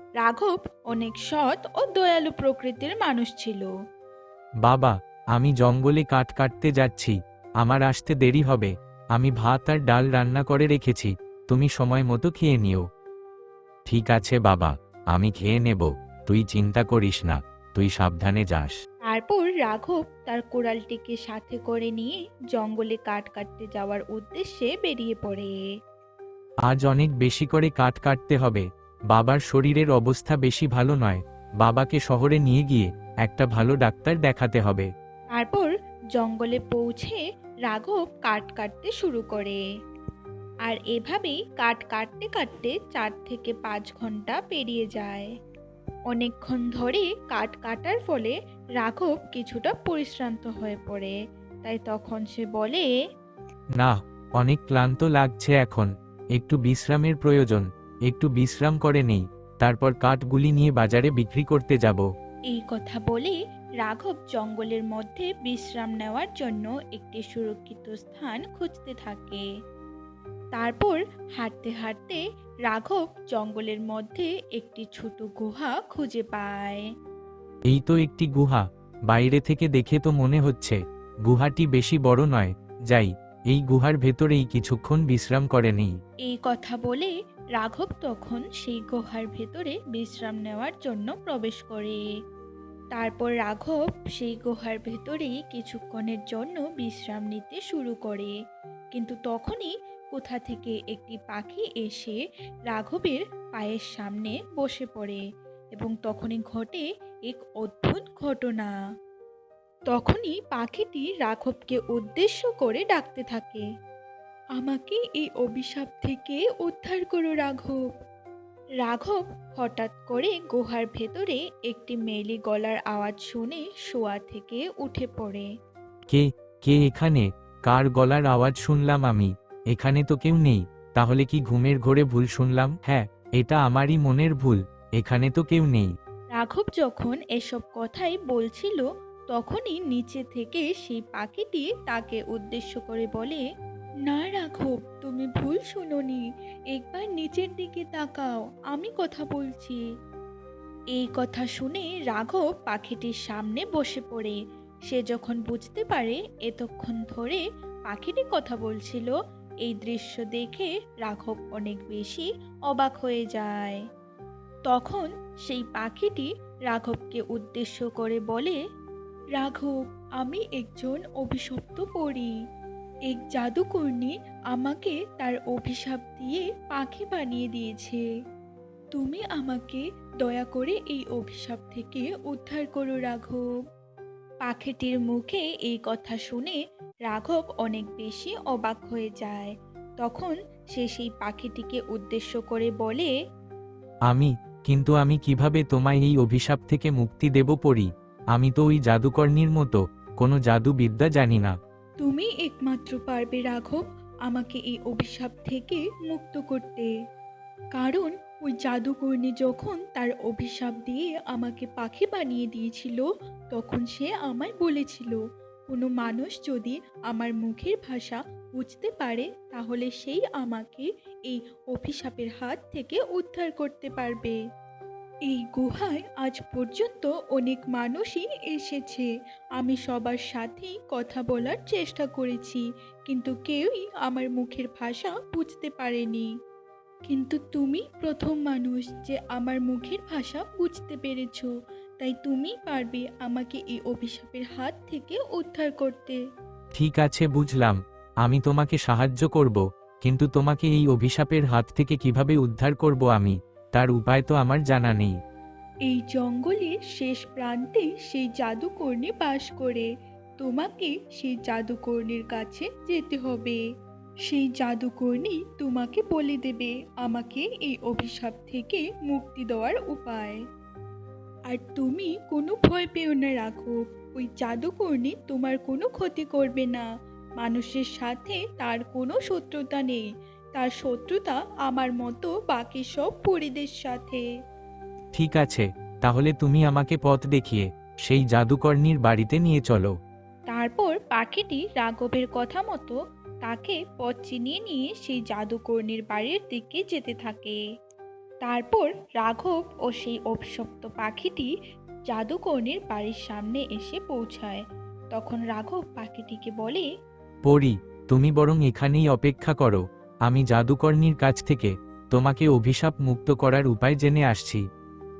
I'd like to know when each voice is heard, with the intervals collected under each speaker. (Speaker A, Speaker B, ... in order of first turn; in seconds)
Speaker A: 0.2-3.7, 19.1-25.5, 35.3-39.6, 40.7-45.3, 46.1-52.9, 62.5-69.4, 70.6-76.8, 86.3-92.0, 92.9-98.3, 98.9-102.2, 102.7-105.2, 105.8-108.7, 109.9-113.6, 114.6-117.8, 118.8-125.5, 136.3-143.4, 144.1-149.8, 150.9-154.4, 154.9-159.1, 159.6-163.8, 164.7-168.6, 169.3-172.3, 173.1-178.0, 179.0-183.5, 184.4-193.1, 202.0-206.9, 207.8-215.2, 215.7-224.4, 225.3-236.3, 237.1-246.2, 255.9-259.9, 260.4-263.6, 264.3-270.4, 271.5-276.9, 277.4-284.2, 290.5-297.6, 298.4-301.5, 302.1-304.6, 305.1-306.9
Speaker B: 4.6-12.8, 13.9-18.8, 26.7-34.9, 53.8-62.1, 77.7-85.9, 126.1-135.9, 194.1-201.6, 246.8-255.1, 285.1-289.9, 307.4-314.6